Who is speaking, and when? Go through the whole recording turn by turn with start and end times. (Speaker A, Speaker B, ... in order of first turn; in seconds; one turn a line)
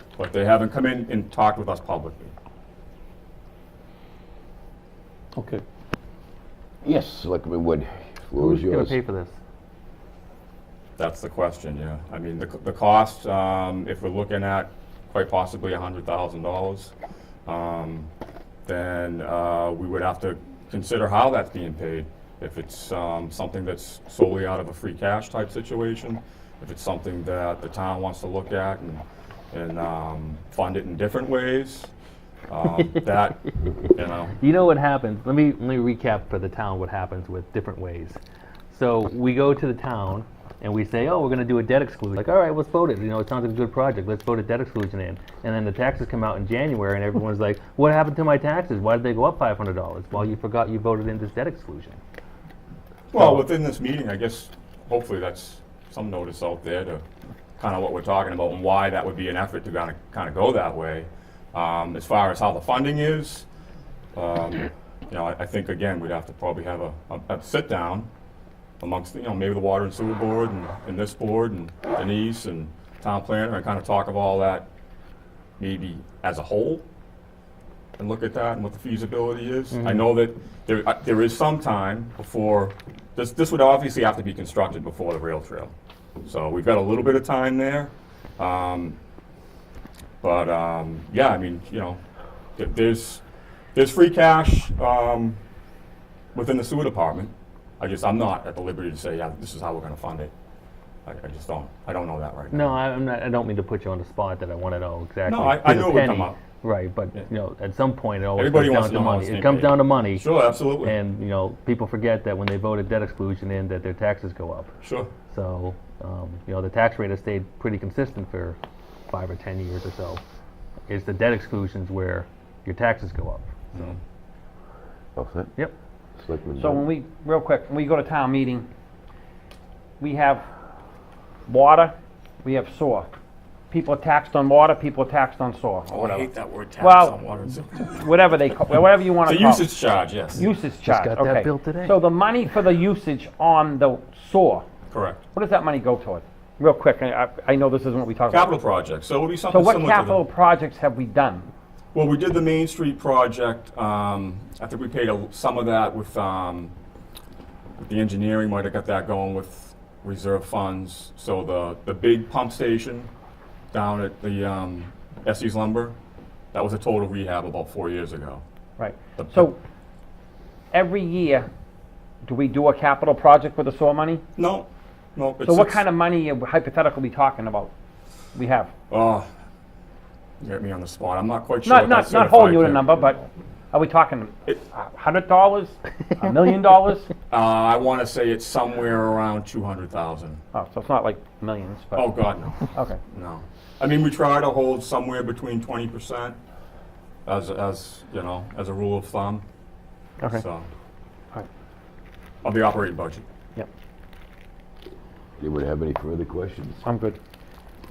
Speaker A: 0.1-2.3
Speaker B: 6.8-9.0
Speaker C: 8.4-9.3
Speaker A: 11.0-16.9
Speaker A: 17.4-18.1
Speaker A: 18.6-31.9
Speaker A: 32.5-33.4
Speaker A: 33.9-34.3
Speaker C: 34.4-38.2
Speaker C: 38.7-52.0
Speaker A: 53.1-57.0
Speaker C: 53.1-53.4
Speaker A: 57.6-63.5
Speaker A: 64.1-68.1
Speaker A: 68.8-74.7
Speaker A: 75.6-76.8
Speaker A: 78.0-85.7
Speaker C: 79.7-80.1
Speaker A: 86.2-89.0
Speaker A: 90.2-92.0
Speaker A: 92.5-93.2
Speaker A: 93.7-95.4
Speaker A: 96.3-100.3
Speaker A: 101.0-102.8
Speaker C: 102.5-114.7
Speaker A: 105.2-106.4
Speaker A: 108.3-111.0
Speaker A: 114.8-115.1
Speaker C: 115.3-118.6
Speaker C: 119.1-120.2
Speaker C: 120.9-124.0
Speaker B: 125.2-125.5
Speaker B: 126.2-126.9
Speaker D: 126.6-128.7
Speaker D: 130.0-130.5
Speaker D: 131.5-133.1
Speaker D: 133.7-136.3
Speaker A: 135.9-138.0
Speaker D: 136.8-139.7
Speaker A: 139.2-140.4
Speaker D: 140.3-144.7
Speaker C: 140.8-142.0
Speaker A: 144.9-145.2
Speaker D: 145.3-148.6
Speaker A: 148.3-150.2
Speaker D: 149.5-151.5
Speaker A: 151.9-156.7
Speaker A: 157.8-163.1
Speaker A: 163.7-165.9
Speaker A: 166.5-168.4
Speaker D: 168.8-169.6
Speaker A: 169.2-169.5
Speaker D: 170.7-171.5
Speaker D: 172.2-174.2
Speaker A: 174.3-175.8
Speaker D: 175.4-177.7
Speaker D: 178.3-178.7
Speaker A: 178.9-179.3
Speaker A: 180.4-182.9
Speaker D: 181.6-187.1
Speaker A: 187.3-190.4
Speaker D: 190.5-192.1
Speaker A: 191.9-196.4
Speaker A: 197.2-199.4
Speaker A: 200.3-200.7
Speaker A: 202.4-203.2
Speaker B: 205.4-206.8
Speaker D: 206.8-207.2